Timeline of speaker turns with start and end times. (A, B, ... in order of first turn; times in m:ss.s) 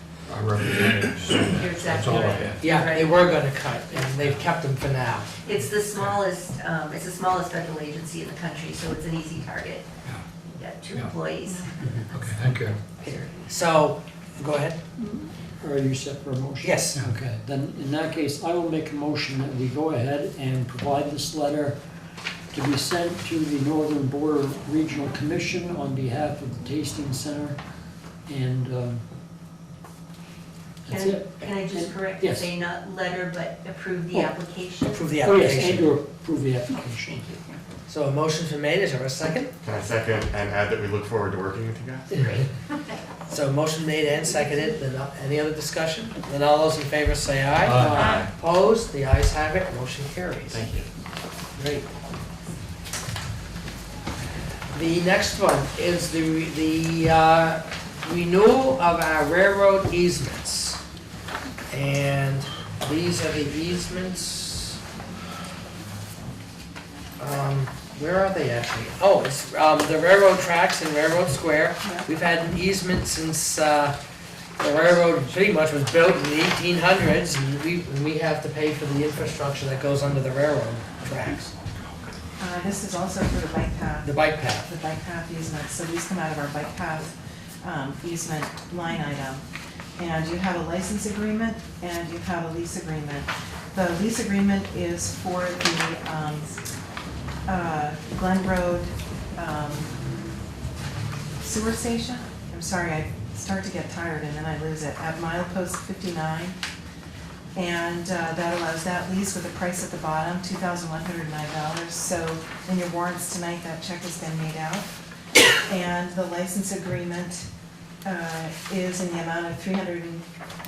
0:00.3-0:02.6 A
0:01.5-0:04.1 B
0:02.6-0:05.3 C
0:05.4-0:09.9 B
0:10.5-0:12.4 B
0:12.1-0:12.8 A
0:13.0-0:13.5 B
0:13.0-0:14.8 C
0:15.0-0:21.8 D
0:16.6-0:17.0 C
0:22.5-0:27.6 D
0:28.2-0:29.0 D
0:30.9-0:32.5 D
0:30.9-0:35.1 B
0:34.9-0:35.9 C
0:35.2-0:37.2 D
0:37.0-0:37.4 B
0:37.9-0:39.5 C
0:39.6-0:42.3 E
0:42.2-0:42.4 B
0:43.3-0:50.6 C
0:47.6-0:48.1 A
0:47.9-0:48.3 E
0:50.5-0:50.9 E
0:51.6-0:51.8 C
0:54.7-1:00.8 C
1:01.7-1:04.8 C
1:07.2-1:14.0 C
1:14.6-1:21.5 C
1:22.4-1:29.4 F
1:24.0-1:24.7 C
1:30.0-1:36.6 F
1:37.4-1:39.9 F
1:41.4-1:46.5 F
1:47.5-1:54.9 F
1:55.6-1:57.5 F
1:58.0-2:00.2 F